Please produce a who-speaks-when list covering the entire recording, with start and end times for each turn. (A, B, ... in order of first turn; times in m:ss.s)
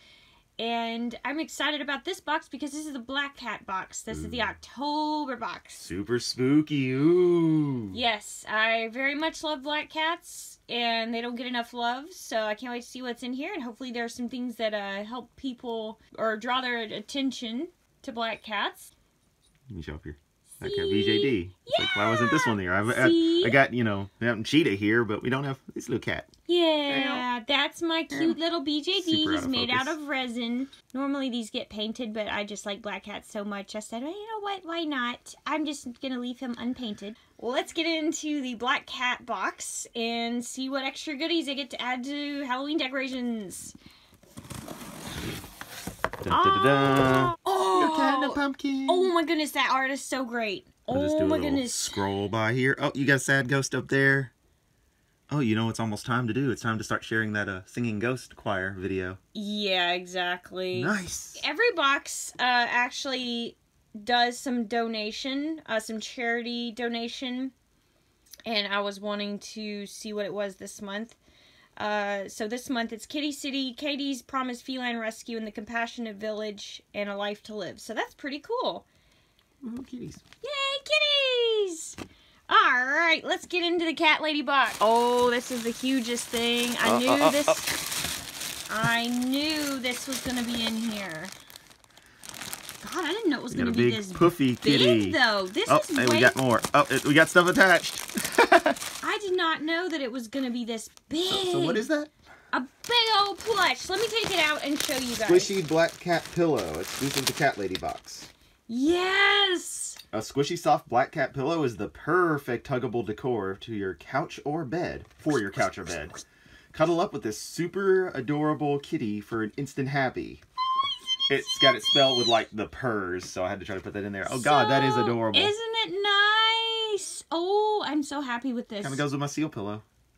0:00.6-0:05.9 A
0:04.1-0:04.5 B
0:05.8-0:08.0 B
0:07.9-0:18.9 A
0:19.7-0:26.3 B
0:20.6-0:23.6 A
0:26.5-0:43.8 A
0:26.9-0:27.3 B
0:28.1-0:28.4 B
0:29.0-0:30.0 B
0:46.2-0:49.1 B
0:46.3-0:52.0 A
0:50.9-0:54.3 B
0:55.3-0:59.2 B
0:59.4-1:07.5 A
1:00.7-1:01.4 B
1:08.5-1:11.2 A
1:11.8-1:18.9 A
1:19.6-1:20.2 B
1:20.4-1:27.8 A
1:26.8-1:27.7 B
1:28.7-1:31.3 A
1:32.8-1:36.4 A
1:33.5-1:38.8 B
1:39.0-1:41.8 A
1:41.3-1:42.1 B
1:42.5-1:45.6 A
1:45.2-1:48.3 B
1:48.7-1:50.0 A
1:50.1-1:56.2 B
1:56.7-2:00.4 B
2:01.3-2:05.5 B
2:04.3-2:09.0 A
2:08.8-2:09.8 B